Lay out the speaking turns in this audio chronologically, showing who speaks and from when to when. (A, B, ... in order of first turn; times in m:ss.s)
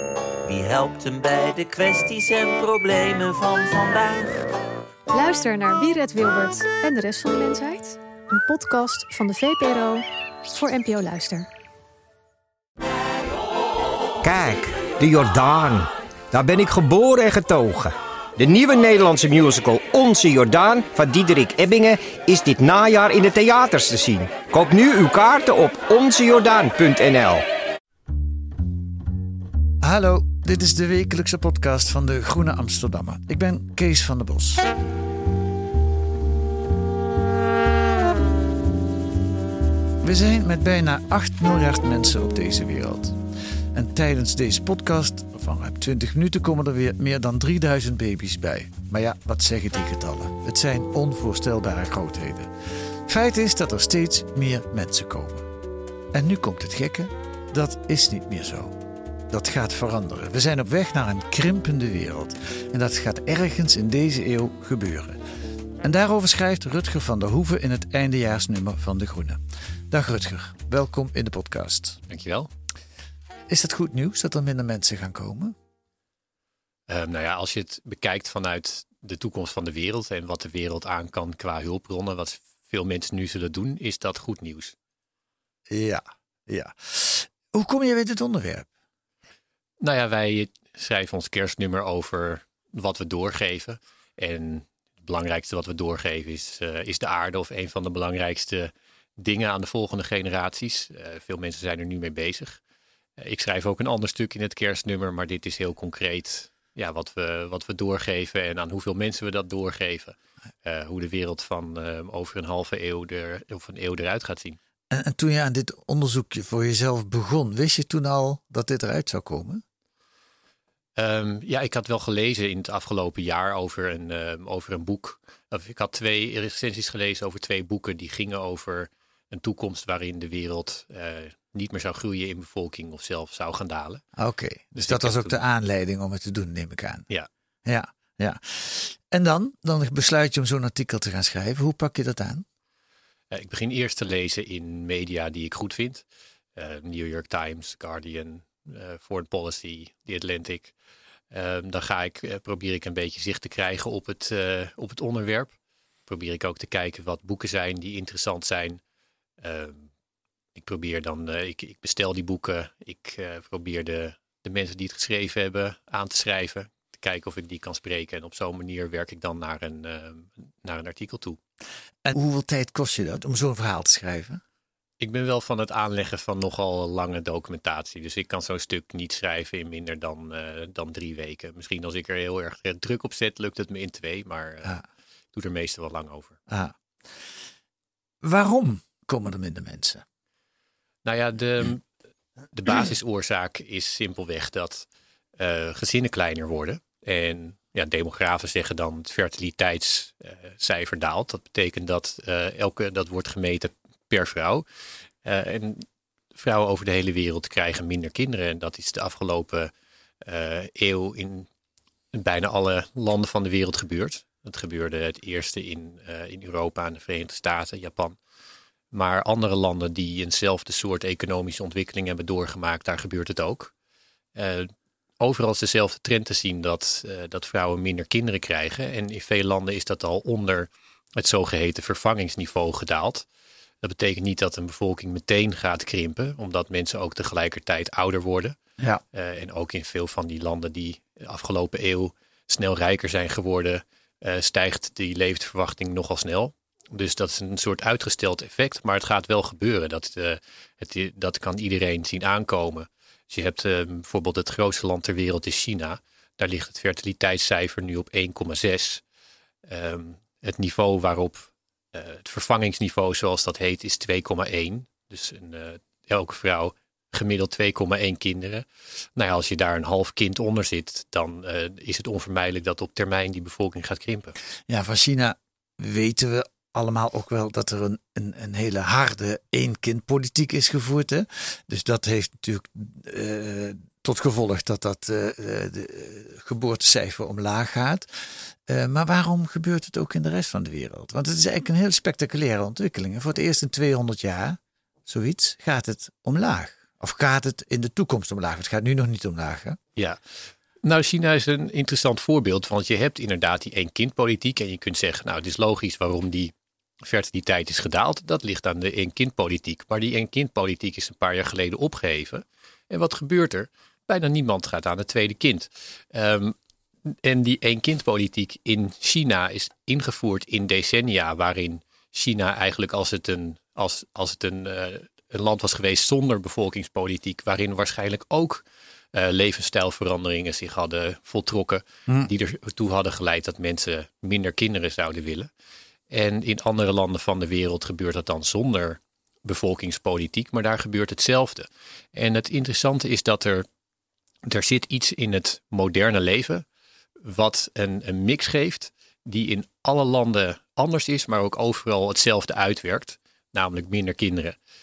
0:00.5-0:04.4 A
0:05.1-0:11.5 B
0:14.2-0:27.4 C
0:29.8-0:34.7 D
0:40.0-0:43.2 D
0:43.7-0:52.5 D
0:53.0-0:55.5 D
0:56.1-0:58.8 D
0:59.3-1:05.2 D
1:05.8-1:12.0 D
1:12.1-1:12.5 E
1:13.5-1:15.5 D
1:16.9-1:24.8 E
1:25.7-1:28.7 D
1:29.8-1:42.6 E
1:43.2-1:54.6 E
1:54.9-1:59.6 D
2:01.0-2:14.0 E
2:14.2-2:17.1 D
2:14.8-2:15.4 E
2:17.7-2:22.4 D
2:23.3-2:26.0 E
2:26.6-2:30.7 E
2:31.3-2:35.5 E
2:36.1-2:38.8 E
2:39.4-2:39.9 E
2:40.6-2:51.4 E
2:52.0-2:54.4 D
2:55.0-3:04.8 E
3:05.3-3:06.4 E
3:06.5-3:06.8 D
3:08.2-3:10.0 D
3:11.0-3:11.8 E
3:12.5-3:14.8 E
3:15.4-3:24.6 E
3:25.2-3:29.7 E
3:30.2-3:31.5 E
3:32.1-3:38.2 E
3:38.9-3:43.7 E
3:44.4-3:53.2 E
3:53.8-3:58.6 E
3:59.1-4:19.0 E
4:19.7-4:34.4 E
4:34.7-4:59.8 D
5:00.8-5:16.6 E
5:17.1-5:35.5 E
5:36.1-5:43.6 E
5:44.4-5:46.6 E
5:47.2-5:54.6 E